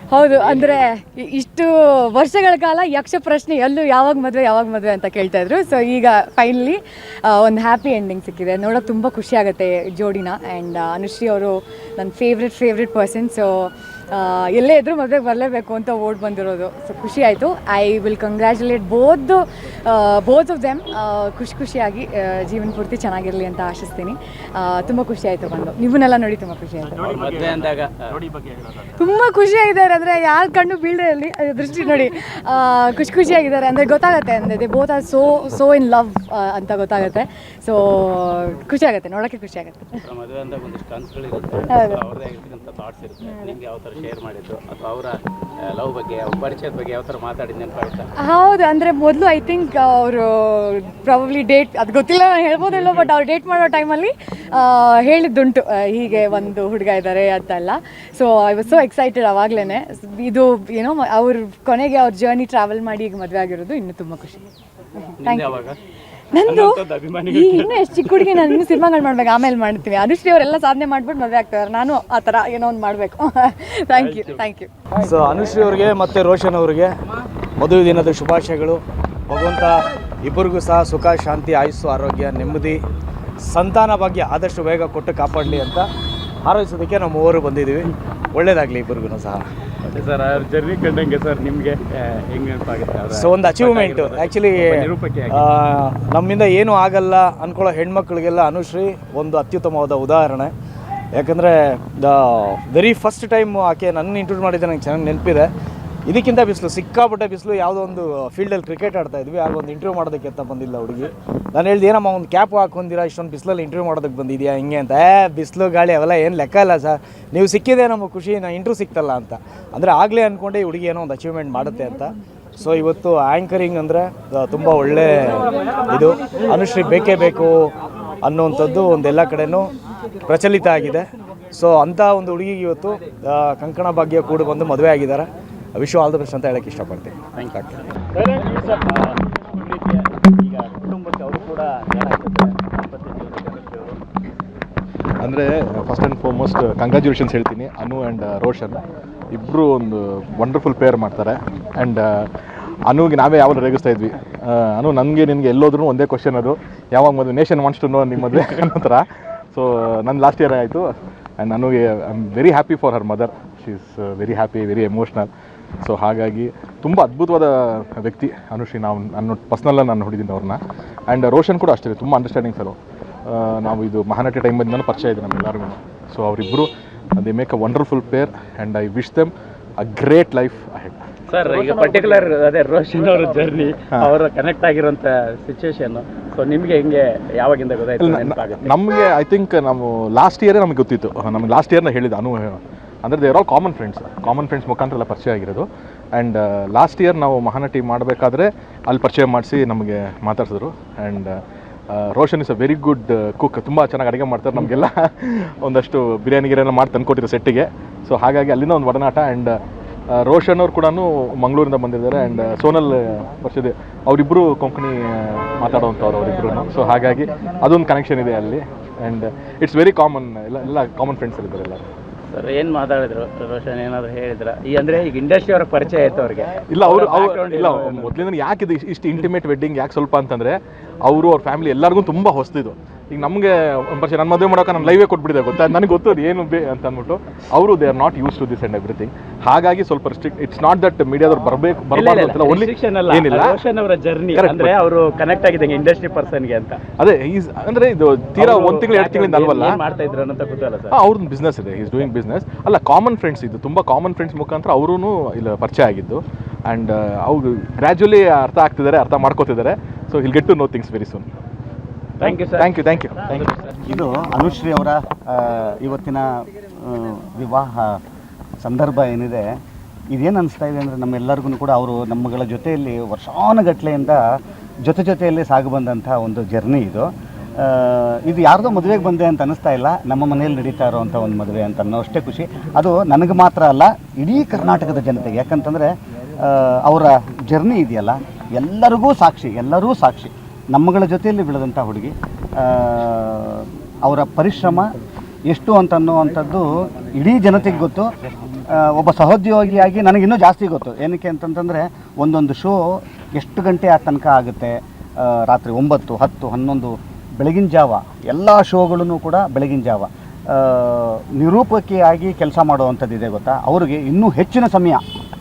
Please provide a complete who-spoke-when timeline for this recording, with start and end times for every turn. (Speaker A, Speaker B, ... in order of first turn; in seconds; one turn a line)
Speaker A: 0.1-27.2
Speaker B: 0.5-0.7
Speaker B: 27.1-28.2
Speaker A: 28.9-40.0
Speaker B: 40.0-48.1
Speaker A: 41.7-42.0
Speaker A: 43.2-43.6
Speaker A: 48.2-64.5
Speaker A: 65.2-65.6
Speaker B: 65.2-65.8
Speaker A: 66.3-74.7
Speaker B: 66.4-68.6
Speaker B: 74.0-74.4
Speaker C: 75.0-76.9
Speaker C: 77.6-82.8
Speaker C: 83.4-85.8
Speaker C: 86.5-89.4
Speaker B: 89.8-95.6
Speaker C: 93.2-94.6
Speaker C: 95.4-100.5
Speaker C: 101.1-105.5
Speaker C: 106.0-122.1
Speaker C: 122.6-127.7
Speaker C: 128.2-129.7
Speaker C: 130.3-137.2
Speaker B: 137.3-137.8
Speaker B: 140.8-142.6
Speaker D: 145.2-148.8
Speaker D: 149.3-152.2
Speaker D: 152.9-160.8
Speaker D: 161.4-165.3
Speaker D: 165.8-172.8
Speaker D: 173.3-181.0
Speaker B: 181.3-188.7
Speaker D: 188.0-201.3
Speaker D: 201.9-209.6
Speaker D: 210.1-221.8
Speaker B: 222.3-228.2
Speaker D: 226.7-243.6
Speaker B: 241.9-246.8
Speaker D: 244.3-244.8
Speaker D: 247.0-249.8
Speaker B: 248.4-250.9
Speaker D: 250.9-261.2
Speaker B: 262.2-262.7
Speaker D: 262.2-263.4
Speaker E: 263.8-268.0
Speaker E: 268.6-269.5
Speaker E: 270.1-274.2
Speaker E: 274.8-294.8
Speaker E: 295.5-298.1
Speaker E: 298.7-315.0